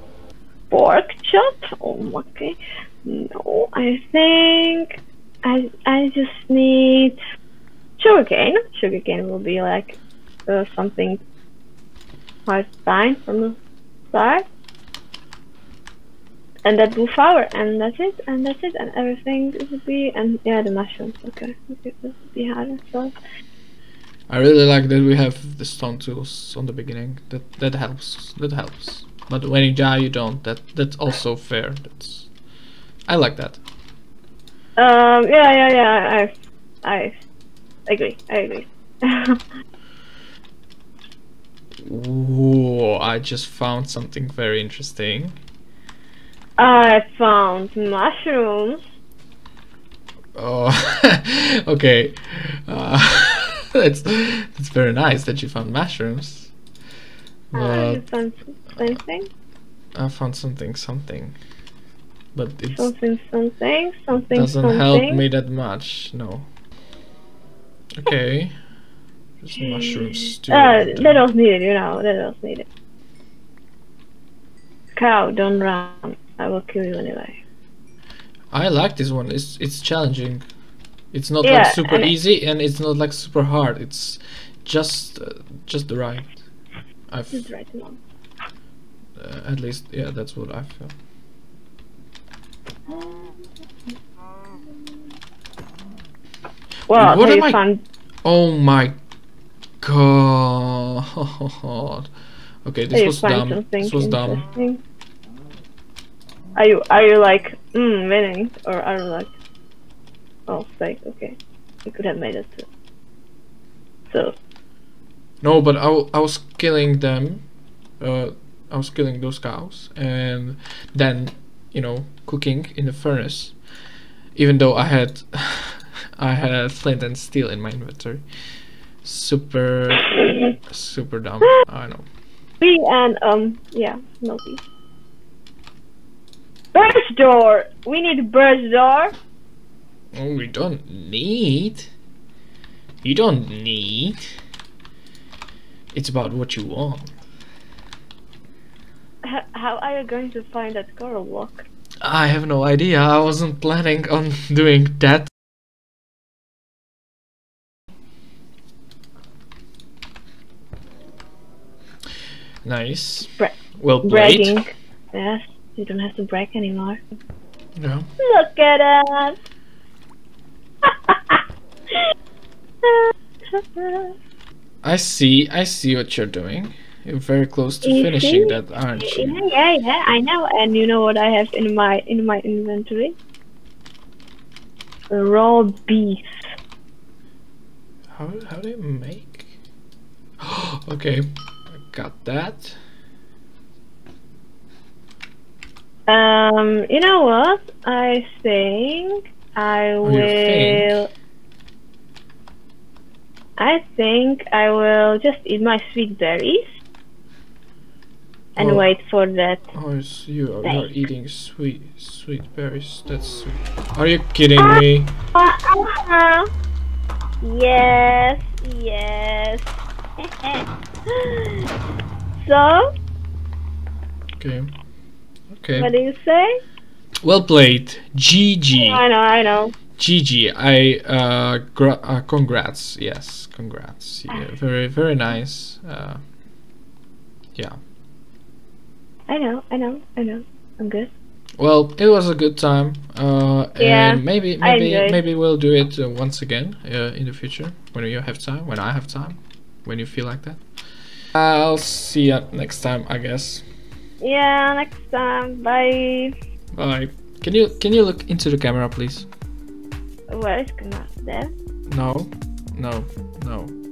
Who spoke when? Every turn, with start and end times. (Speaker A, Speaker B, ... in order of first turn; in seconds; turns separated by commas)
Speaker A: 0.7-7.2, Speaker A: 8.0-11.2, Speaker A: 12.4-13.6, Speaker A: 14.1-14.4, Speaker A: 16.6-23.1, Speaker B: 24.3-32.3, Speaker B: 33.1-33.6, Speaker A: 34.8-36.3, Speaker A: 36.8-37.2, Speaker A: 37.9-39.4, Speaker B: 41.8-45.4, Speaker A: 46.6-48.8, Speaker B: 50.3-56.5, Speaker B: 57.5-58.0, Speaker A: 57.5-59.3, Speaker B: 59.9-61.4, Speaker B: 62.3-62.9, Speaker A: 62.8-65.2, Speaker B: 64.1-66.5, Speaker B: 67.9-68.5, Speaker B: 69.4-71.2, Speaker A: 69.6-72.7, Speaker A: 75.0-77.4, Speaker B: 78.5-80.4, Speaker B: 81.1-86.4, Speaker A: 81.4-82.1, Speaker B: 87.1-87.5, Speaker A: 87.3-88.0, Speaker B: 89.2-90.9, Speaker A: 92.9-93.5, Speaker A: 94.7-94.9, Speaker A: 96.9-97.8, Speaker B: 96.9-97.6, Speaker B: 98.2-99.0, Speaker B: 99.8-102.1, Speaker B: 102.7-104.4, Speaker A: 102.9-104.8, Speaker A: 106.5-109.3, Speaker A: 110.5-112.7, Speaker A: 114.1-114.3, Speaker B: 115.4-117.4, Speaker B: 118.0-123.5, Speaker B: 124.3-128.2, Speaker B: 129.0-132.1, Speaker A: 130.0-130.5, Speaker A: 132.6-134.6, Speaker A: 136.7-139.1, Speaker B: 140.1-141.9, Speaker B: 143.0-144.2, Speaker B: 145.9-147.1, Speaker A: 149.2-151.7, Speaker B: 152.0-155.3, Speaker B: 162.6-164.7, Speaker A: 163.3-167.0, Speaker B: 167.8-168.1, Speaker A: 168.2-169.4, Speaker A: 170.8-172.1, Speaker A: 172.8-174.1, Speaker B: 174.8-179.4, Speaker A: 177.8-183.2, Speaker A: 185.1-186.5, Speaker B: 188.1-189.5, Speaker B: 190.4-192.8, Speaker A: 196.1-201.1, Speaker B: 200.0-201.0, Speaker A: 203.6-206.8, Speaker A: 208.6-209.7, Speaker B: 208.6-208.8, Speaker B: 209.7-215.1, Speaker A: 214.6-216.5, Speaker A: 217.4-221.7, Speaker A: 222.4-222.9, Speaker B: 224.4-224.7, Speaker B: 225.5-225.9, Speaker A: 225.7-226.6, Speaker B: 227.2-229.0, Speaker A: 228.7-229.7, Speaker B: 230.0-236.2, Speaker A: 239.3-241.1, Speaker B: 241.6-250.6, Speaker A: 243.8-245.2, Speaker B: 251.3-253.6, Speaker A: 254.2-256.4, Speaker B: 256.8-259.3, Speaker A: 260.3-261.5, Speaker B: 261.9-263.7